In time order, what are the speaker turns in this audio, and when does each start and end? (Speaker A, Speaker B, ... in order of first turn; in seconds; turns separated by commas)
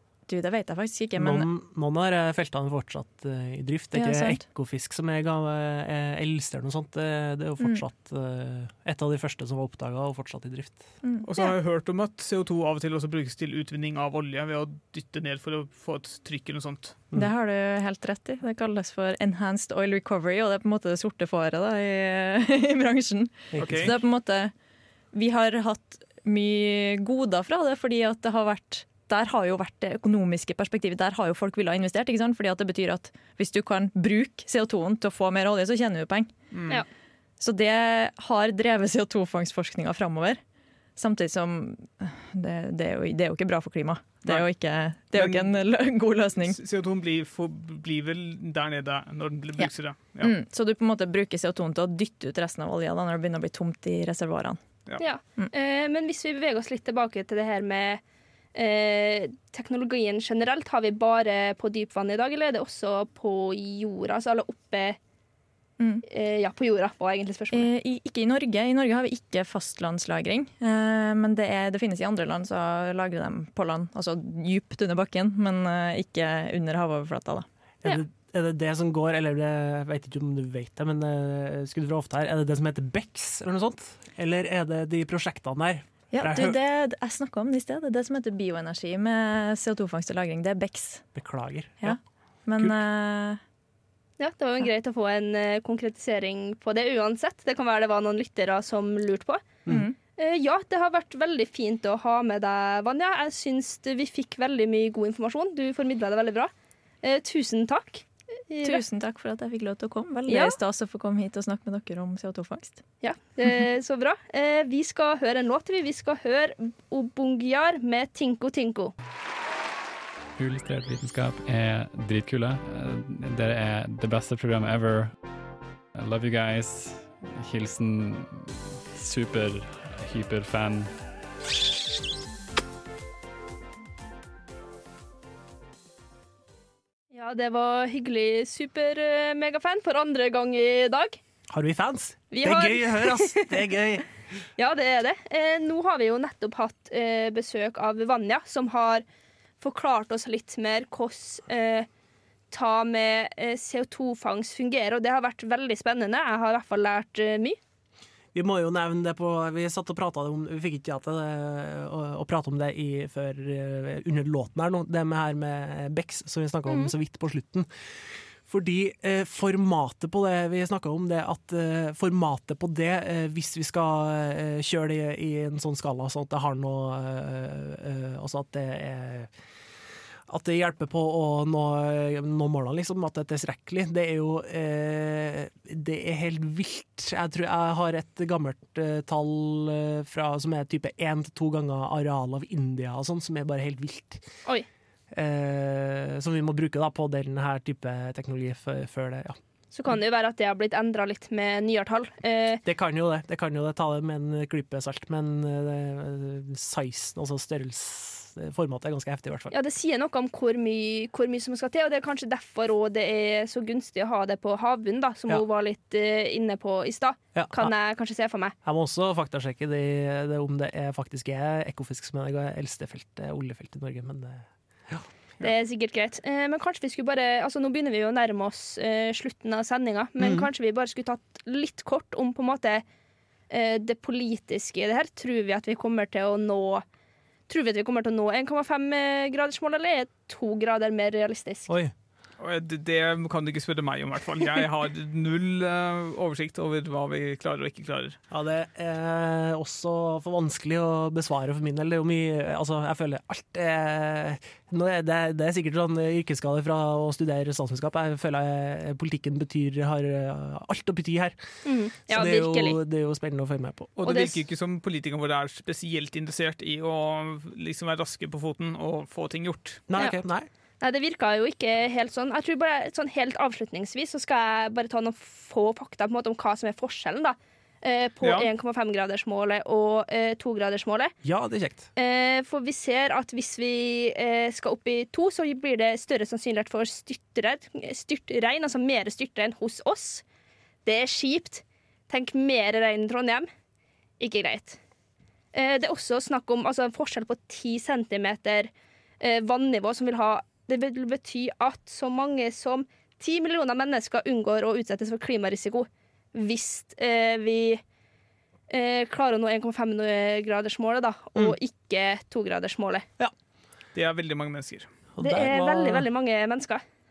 Speaker A: 0.3-1.5, Speaker B: 1.2-11.0, Speaker A: 3.9-4.4, Speaker C: 11.3-17.0, Speaker A: 17.1-24.5, Speaker B: 23.5-23.9, Speaker C: 23.6-23.9, Speaker A: 25.1-36.3, Speaker C: 36.5-36.8, Speaker A: 37.4-40.4, Speaker A: 41.0-46.6, Speaker C: 45.1-45.6, Speaker C: 46.5-50.3, Speaker A: 49.6-54.6, Speaker D: 55.0-58.0, Speaker D: 58.5-65.0, Speaker A: 65.8-66.0, Speaker D: 66.1-67.7, Speaker A: 67.5-77.5, Speaker B: 77.8-86.5, Speaker A: 86.1-91.1, Speaker B: 91.1-92.0, Speaker A: 91.8-93.4, Speaker D: 94.2-99.5, Speaker A: 99.7-100.0, Speaker D: 100.2-106.5, Speaker D: 107.0-108.8, Speaker A: 108.6-112.8, Speaker D: 110.3-110.6, Speaker D: 113.0-118.9, Speaker E: 120.4-125.2, Speaker E: 126.0-131.0, Speaker D: 137.1-141.2, Speaker B: 141.5-144.1, Speaker D: 142.3-143.5, Speaker D: 144.6-149.0, Speaker D: 149.6-151.9, Speaker D: 152.5-157.6, Speaker B: 158.3-179.3, Speaker D: 166.7-166.9, Speaker B: 180.3-194.2, Speaker B: 195.1-199.4, Speaker D: 199.7-202.6, Speaker B: 202.7-209.5, Speaker D: 209.5-218.6, Speaker B: 217.3-217.7, Speaker B: 218.6-225.1, Speaker D: 225.4-232.8, Speaker B: 230.2-230.5, Speaker D: 233.5-236.8, Speaker D: 237.5-241.7, Speaker C: 242.4-248.2, Speaker B: 248.3-261.4, Speaker D: 261.6-262.8, Speaker B: 262.0-263.9, Speaker C: 264.0-269.8, Speaker D: 264.0-264.4, Speaker B: 269.9-270.5, Speaker D: 270.8-281.1, Speaker C: 278.2-278.5, Speaker B: 281.2-281.9, Speaker D: 282.0-290.2, Speaker D: 290.9-293.5, Speaker D: 294.2-294.8, Speaker D: 295.5-307.8, Speaker D: 308.7-313.1, Speaker C: 313.9-314.9, Speaker B: 315.1-316.1, Speaker D: 315.2-316.8